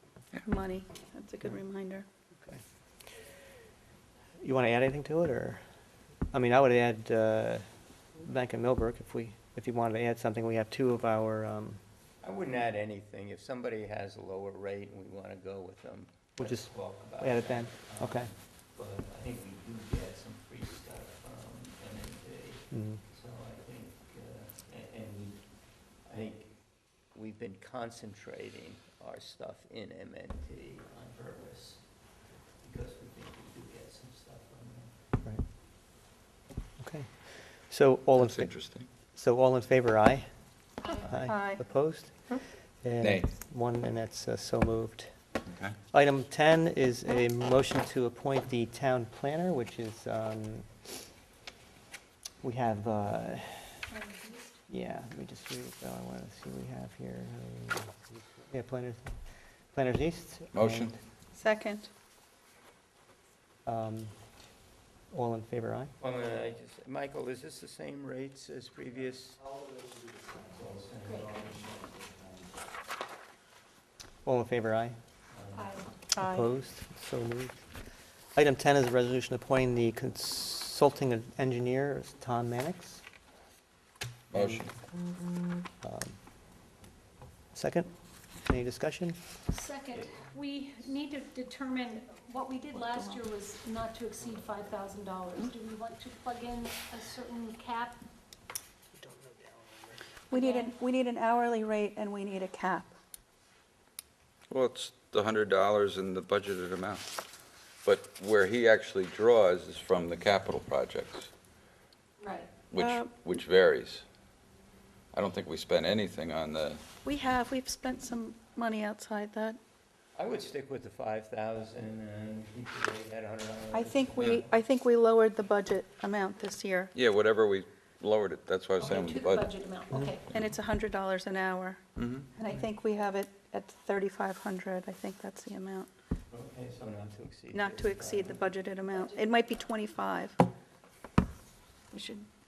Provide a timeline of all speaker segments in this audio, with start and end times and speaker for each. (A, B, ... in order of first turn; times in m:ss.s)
0:00.4-0:02.0 A
0:04.4-0:05.6 B
0:06.3-0:11.8 B
0:12.2-0:26.6 C
0:16.4-0:18.3 B
0:22.7-0:23.0 B
0:27.1-0:32.1 C
0:32.6-0:34.9 C
0:36.8-0:45.3 B
0:38.2-0:38.9 D
0:41.1-0:41.6 A
0:43.0-0:43.3 D
0:45.5-0:45.7 D
0:45.9-0:50.9 B
0:52.4-0:53.9 B
0:53.9-0:54.6 E
0:54.7-1:01.0 B
1:00.5-1:00.9 D
1:01.3-1:01.9 A
1:03.6-1:04.1 B
1:05.1-1:05.9 B
1:06.0-1:09.5 C
1:10.4-1:12.2 C
1:11.0-1:11.4 E
1:14.2-1:15.0 B
1:15.3-1:15.9 C
1:15.5-1:15.9 E
1:16.1-1:16.5 A
1:16.2-1:23.0 B
1:24.3-1:24.7 D
1:24.3-1:24.7 B
1:25.8-1:26.2 B
1:27.5-1:29.2 B
1:29.5-1:38.0 E
1:29.9-1:30.2 C
1:32.8-1:33.2 A
1:40.3-1:42.9 A
1:40.3-1:40.7 E
1:44.5-1:47.1 D
1:47.8-1:51.3 D
1:52.2-1:52.5 E
1:52.7-1:54.0 D
1:52.8-1:53.1 A
1:55.1-1:56.8 D
1:57.0-1:59.6 A
2:00.2-2:04.5 C
2:03.7-2:06.9 A
2:06.9-2:09.5 D
2:08.8-2:10.2 E
2:10.2-2:11.8 A
2:12.0-2:12.3 D
2:12.3-2:15.9 A
2:16.3-2:18.5 C
2:17.5-2:20.4 A
2:21.9-2:22.3 A